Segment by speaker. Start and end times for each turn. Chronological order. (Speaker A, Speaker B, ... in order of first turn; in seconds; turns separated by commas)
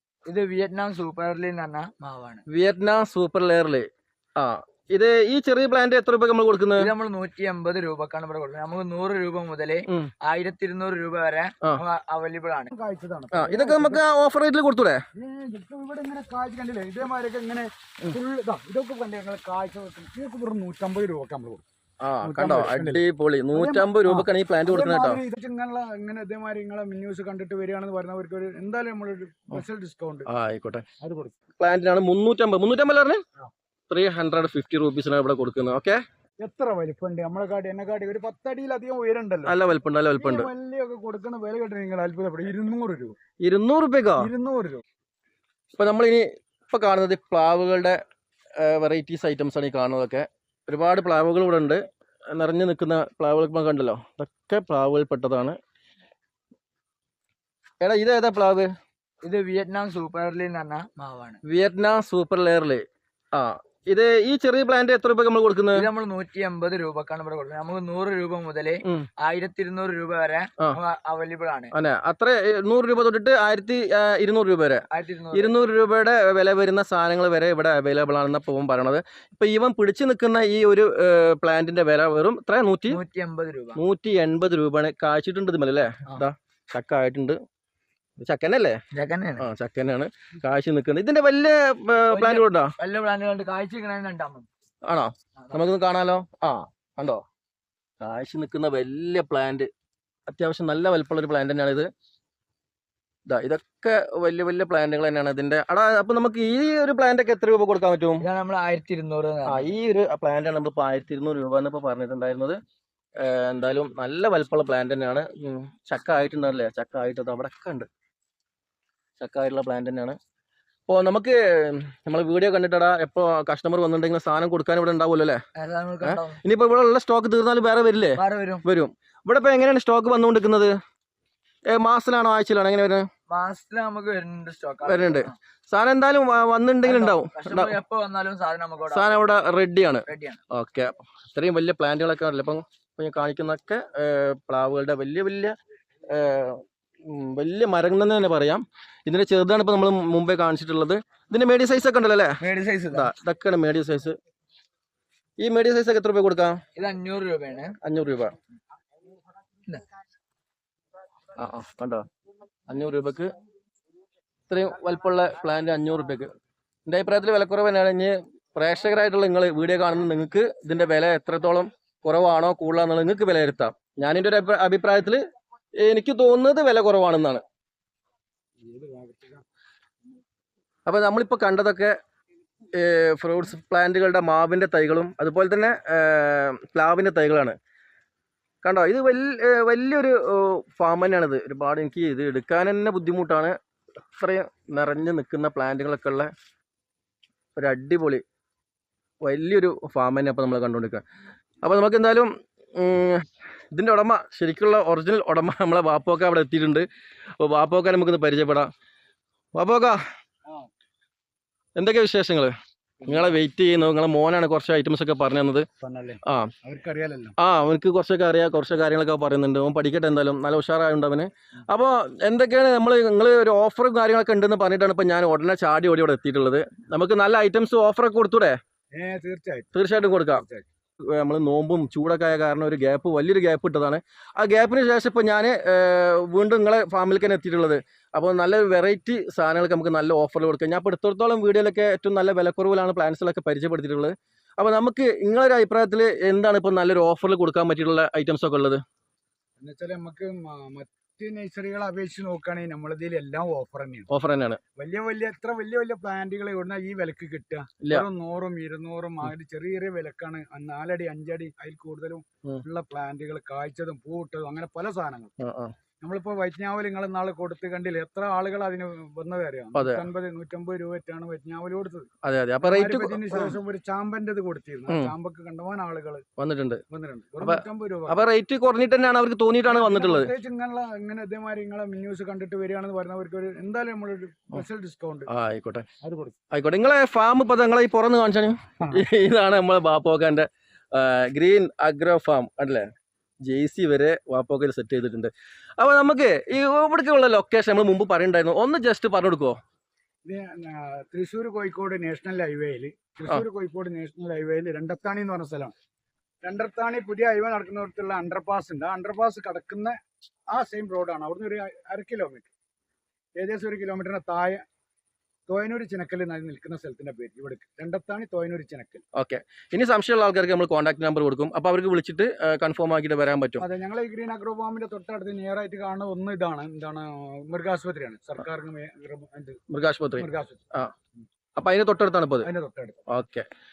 Speaker A: 0.3-2.5, Speaker B: 2.5-3.9, Speaker B: 4.4-6.9, Speaker A: 6.8-12.7, Speaker C: 12.7-14.0, Speaker B: 13.3-15.0, Speaker C: 15.2-21.6, Speaker B: 22.0-25.2, Speaker C: 22.2-30.3, Speaker B: 30.3-30.9, Speaker C: 31.0-31.3, Speaker B: 31.6-33.2, Speaker B: 33.9-36.0, Speaker C: 36.4-39.6, Speaker B: 39.5-40.5, Speaker C: 40.2-43.2, Speaker B: 43.4-44.3, Speaker C: 44.2-44.8, Speaker B: 45.8-48.0, Speaker B: 48.6-51.8, Speaker B: 52.3-55.6, Speaker B: 57.8-58.7, Speaker A: 59.2-61.4, Speaker B: 61.4-62.8, Speaker B: 63.3-65.9, Speaker A: 65.7-71.7, Speaker B: 71.7-83.0, Speaker A: 74.9-75.5, Speaker A: 82.9-83.8, Speaker B: 83.8-87.4, Speaker B: 88.2-88.8, Speaker A: 88.9-89.4, Speaker B: 89.4-92.7, Speaker A: 92.1-94.5, Speaker B: 94.9-97.2, Speaker B: 98.0-99.7, Speaker B: 100.3-101.9, Speaker B: 103.3-108.2, Speaker A: 108.2-109.7, Speaker B: 109.5-112.6, Speaker B: 113.2-117.9, Speaker B: 119.2-120.2, Speaker B: 120.9-125.4, Speaker A: 125.6-126.4, Speaker B: 126.0-130.7, Speaker A: 128.2-128.6, Speaker B: 131.7-133.1, Speaker A: 133.3-135.3, Speaker B: 134.9-137.8, Speaker A: 136.8-139.2, Speaker B: 138.9-145.5, Speaker A: 140.1-140.4, Speaker B: 146.1-152.4, Speaker A: 152.4-153.1, Speaker B: 152.9-154.2, Speaker B: 155.4-156.6, Speaker A: 156.8-157.8, Speaker B: 157.8-158.3, Speaker B: 161.4-162.0, Speaker B: 162.7-163.3, Speaker B: 164.5-166.3, Speaker B: 166.9-175.2, Speaker B: 175.8-177.4, Speaker C: 178.6-179.4, Speaker B: 180.9-181.9, Speaker B: 182.7-187.6, Speaker B: 188.6-193.5, Speaker B: 194.2-196.3, Speaker B: 197.6-198.2, Speaker B: 199.2-201.0, Speaker B: 201.6-206.9, Speaker B: 207.4-208.7, Speaker B: 209.6-210.0, Speaker C: 210.5-210.8, Speaker B: 211.8-212.5, Speaker B: 213.0-215.7, Speaker C: 215.8-217.3, Speaker B: 217.4-228.6, Speaker C: 229.0-229.7, Speaker B: 229.7-230.4, Speaker C: 230.3-230.7, Speaker B: 231.2-248.8, Speaker C: 249.6-254.1, Speaker B: 254.1-254.6, Speaker C: 254.8-265.3, Speaker B: 257.8-258.1, Speaker B: 265.4-265.7, Speaker C: 266.0-272.1, Speaker B: 269.8-270.1, Speaker B: 272.2-273.6, Speaker C: 272.6-276.2, Speaker B: 274.9-275.1, Speaker B: 276.4-276.8, Speaker C: 276.9-278.2, Speaker B: 277.4-280.3, Speaker C: 279.7-285.3, Speaker B: 285.3-285.9, Speaker C: 286.0-286.4, Speaker B: 286.5-292.9, Speaker B: 293.4-299.6, Speaker C: 300.2-305.7, Speaker C: 306.4-309.9, Speaker C: 310.5-312.5, Speaker C: 313.4-314.6, Speaker C: 315.5-319.0, Speaker B: 319.2-323.6, Speaker C: 323.6-329.6, Speaker B: 329.7-330.9, Speaker C: 330.2-330.6, Speaker B: 331.6-332.5, Speaker C: 332.4-333.0, Speaker B: 333.1-333.4